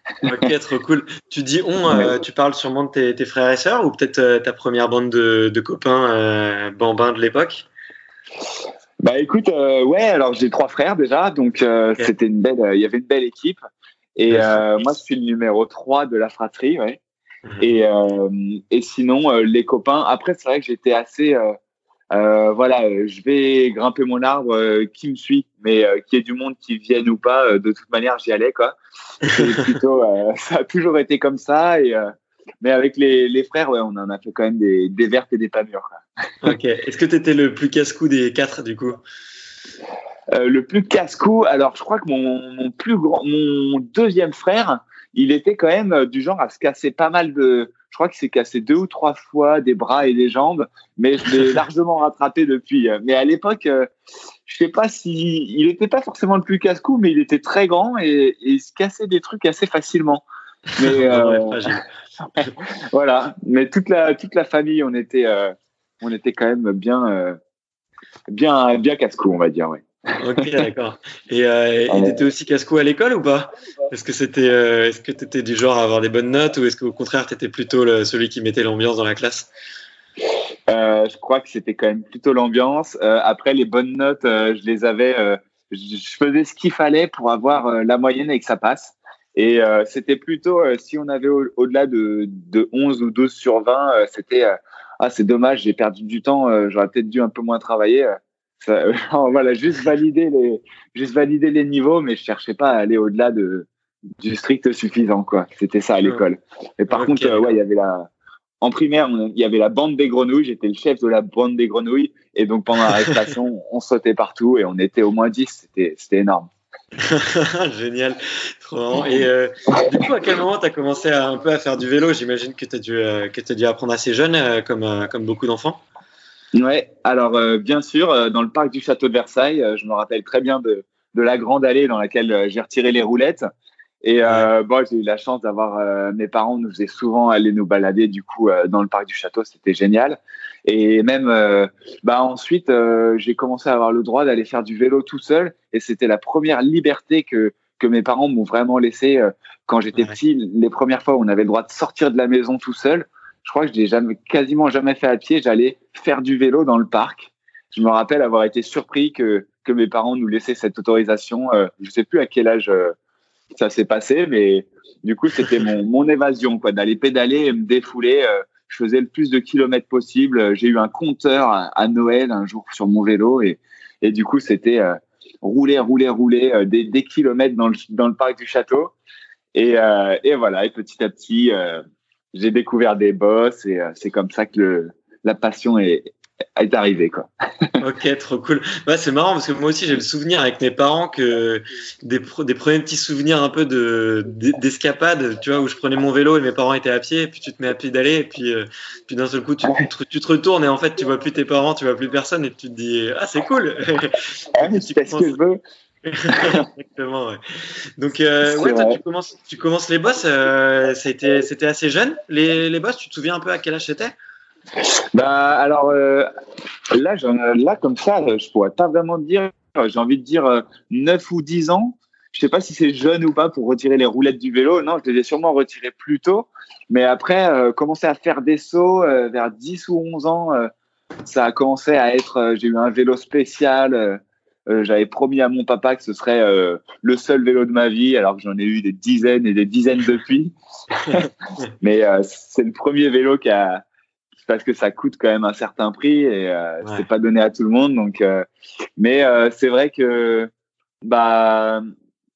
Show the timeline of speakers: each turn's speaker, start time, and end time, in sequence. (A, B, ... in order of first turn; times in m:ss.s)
0:00.2-0:07.6 A
0:01.9-0:02.1 B
0:09.0-0:13.6 B
0:14.2-0:17.0 B
0:14.3-0:14.7 A
0:17.5-0:17.7 A
0:17.6-0:21.5 B
0:22.1-0:32.1 B
0:32.6-0:36.6 B
0:36.4-0:39.0 A
0:40.3-0:53.9 B
0:54.4-1:00.2 B
1:00.7-1:01.8 A
1:00.8-1:01.8 B
1:02.4-1:07.4 B
1:08.3-1:10.5 B
1:10.2-1:19.5 A
1:11.9-1:12.2 B
1:20.7-1:43.7 B
1:44.2-1:48.1 B
1:46.9-1:47.5 A
1:48.6-1:56.5 B
1:57.0-2:05.8 A
2:06.5-2:13.4 B
2:14.0-2:43.0 B
2:43.5-2:58.9 B
2:59.5-3:01.8 B
3:02.3-3:07.8 B
3:07.8-3:25.4 A
3:24.6-3:25.6 B
3:26.0-3:27.4 A
3:26.3-3:26.6 B
3:28.0-3:34.1 A
3:28.4-3:29.0 B
3:34.8-3:36.3 B
3:36.9-3:50.7 B
3:51.2-4:00.5 B
4:01.8-4:03.8 B
4:04.4-4:08.4 B
4:09.0-4:10.5 B
4:11.0-4:11.8 B